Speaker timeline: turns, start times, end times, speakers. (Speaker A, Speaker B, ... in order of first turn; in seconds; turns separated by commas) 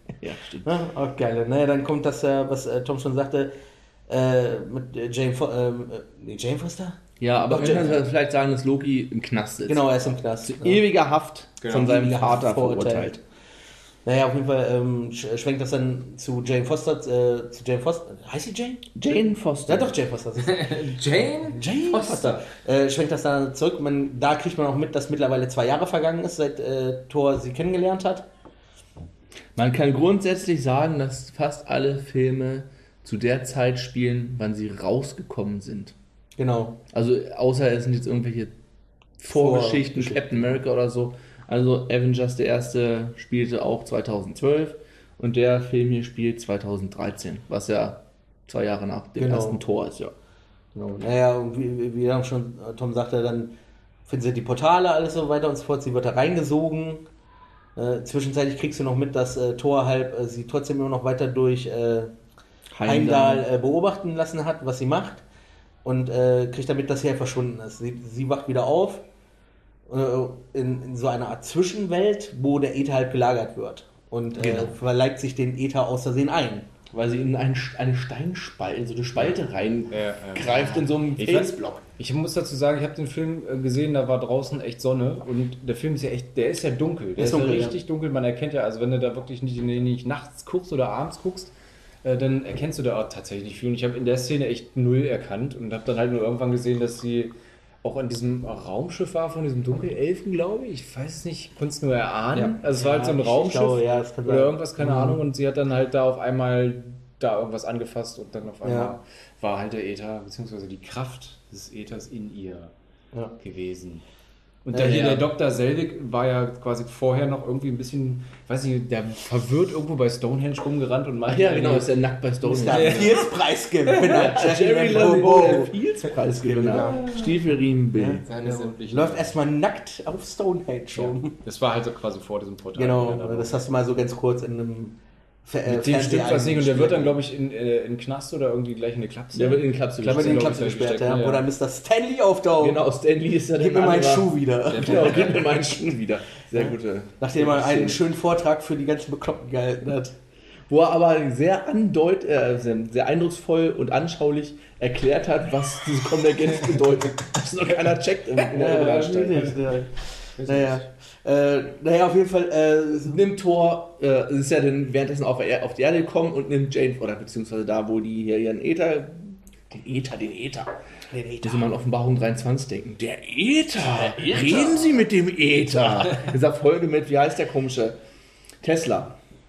Speaker A: 0.2-0.8, Speaker B: 0.6-3.5, Speaker B: 4.1-8.0, Speaker A: 7.2-13.2, Speaker B: 9.7-10.8, Speaker C: 11.6-11.9, Speaker B: 11.7-13.1, Speaker B: 14.0-19.0, Speaker A: 18.9-19.9, Speaker B: 19.7-20.8, Speaker C: 20.4-22.4, Speaker B: 21.5-28.2, Speaker A: 29.6-35.9, Speaker B: 36.4-36.8, Speaker A: 36.9-38.5, Speaker A: 39.2-50.1, Speaker B: 39.3-40.4, Speaker B: 49.2-49.6, Speaker B: 50.8-53.5, Speaker B: 54.1-57.0, Speaker B: 57.8-62.1, Speaker A: 62.7-63.5, Speaker B: 62.9-65.2, Speaker B: 65.8-69.0, Speaker B: 69.9-76.7, Speaker A: 74.4-74.8, Speaker A: 76.9-81.8, Speaker C: 79.9-91.5, Speaker B: 87.2-87.8, Speaker C: 92.0-112.7, Speaker B: 102.3-105.1, Speaker B: 108.6-108.9, Speaker C: 113.4-114.0, Speaker C: 114.6-121.9, Speaker B: 114.7-115.2, Speaker A: 114.8-115.2, Speaker A: 121.3-123.2, Speaker B: 122.4-125.7, Speaker C: 122.7-123.3, Speaker A: 123.9-128.2, Speaker B: 126.3-127.0, Speaker C: 126.6-127.4, Speaker B: 127.9-131.4, Speaker C: 128.2-129.3, Speaker C: 130.9-133.5, Speaker B: 132.8-137.2, Speaker C: 135.7-141.4, Speaker A: 139.3-140.5, Speaker B: 140.0-142.8, Speaker A: 142.6-148.0, Speaker B: 143.6-145.4, Speaker C: 144.7-145.4, Speaker B: 146.5-150.1, Speaker A: 150.7-159.5, Speaker B: 158.5-163.2, Speaker C: 158.6-159.6, Speaker C: 160.4-160.9, Speaker A: 163.1-170.7, Speaker B: 171.1-171.7, Speaker A: 171.4-178.0, Speaker B: 173.8-174.9, Speaker C: 174.3-174.6, Speaker A: 178.6-179.2